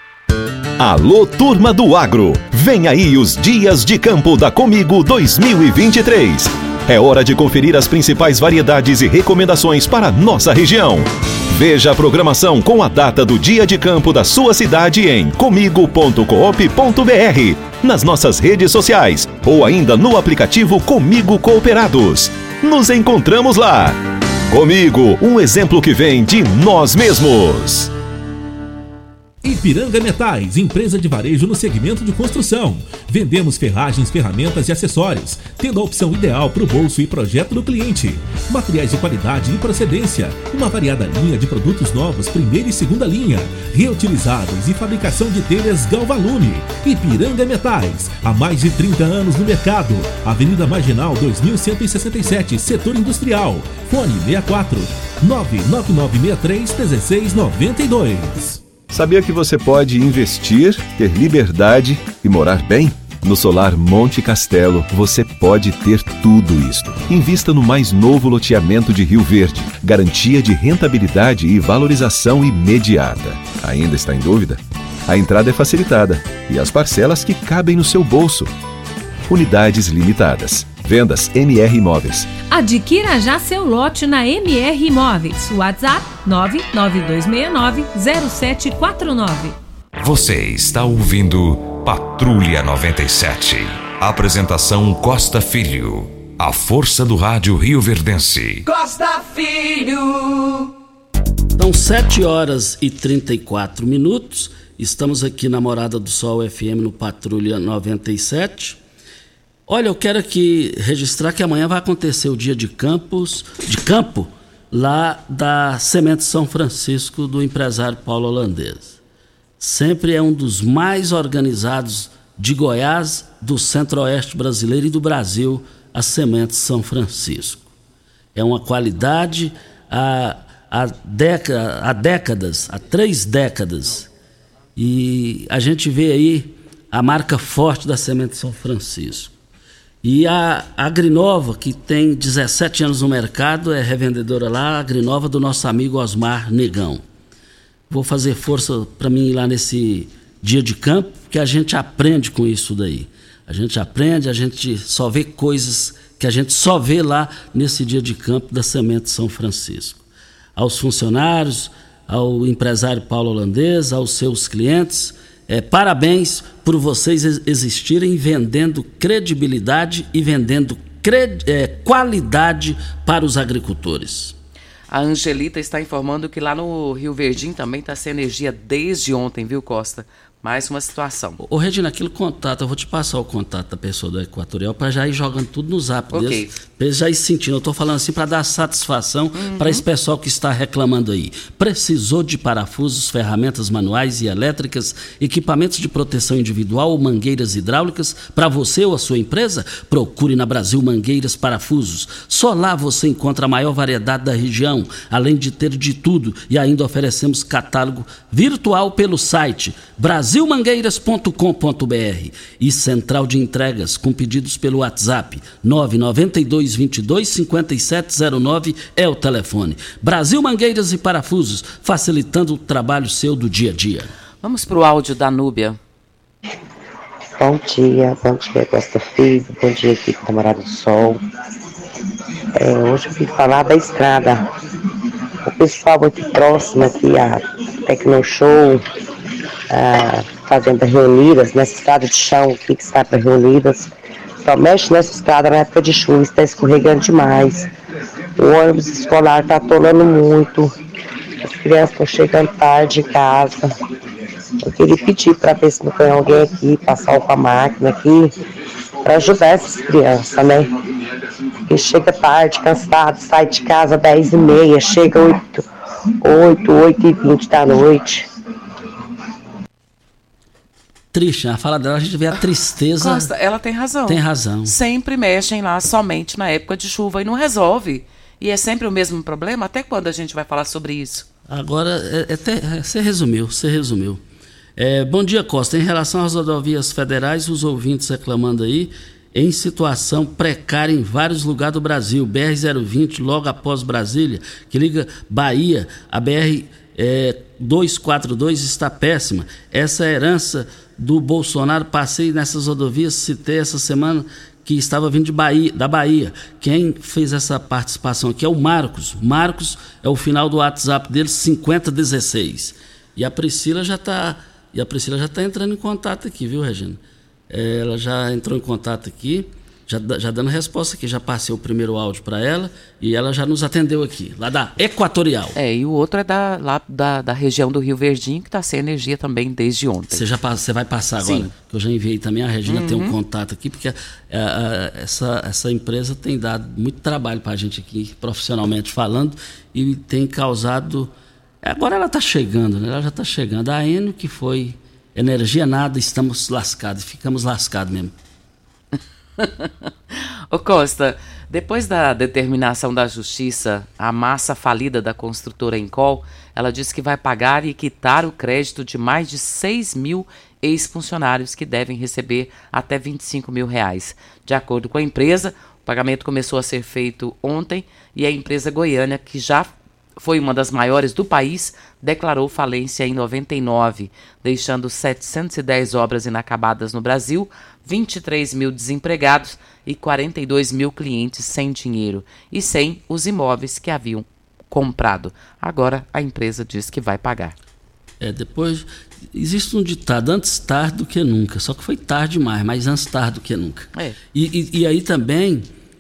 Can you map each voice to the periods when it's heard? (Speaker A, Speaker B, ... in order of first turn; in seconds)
Speaker A: 0.8-24.0, 24.5-27.9, 58.9-78.5, 79.3-82.3
Speaker B: 29.4-58.6
Speaker C: 82.5-89.6
Speaker D: 90.0-98.7
Speaker E: 98.7-100.7
Speaker F: 101.6-108.8, 109.7-119.0, 119.6-127.7, 128.3-134.1, 134.8-139.3, 140.0-147.0, 147.9-160.0, 160.6-174.3, 181.4-224.1, 271.1-273.3, 274.1-274.7, 281.5-284.2, 284.8-325.6, 330.1-348.1, 388.2-395.7
Speaker G: 174.9-181.4, 186.1-186.5, 189.4-189.8, 224.4-225.8, 273.0-281.2, 325.6-330.2, 331.2-331.5, 332.7-333.1, 349.4-387.6
Speaker H: 227.4-231.2, 232.5-234.4, 235.5-238.8, 239.7-243.9, 244.4-247.7, 248.4-250.7, 251.4-253.7, 254.6-258.3, 259.0-260.7, 261.7-265.6, 266.2-268.3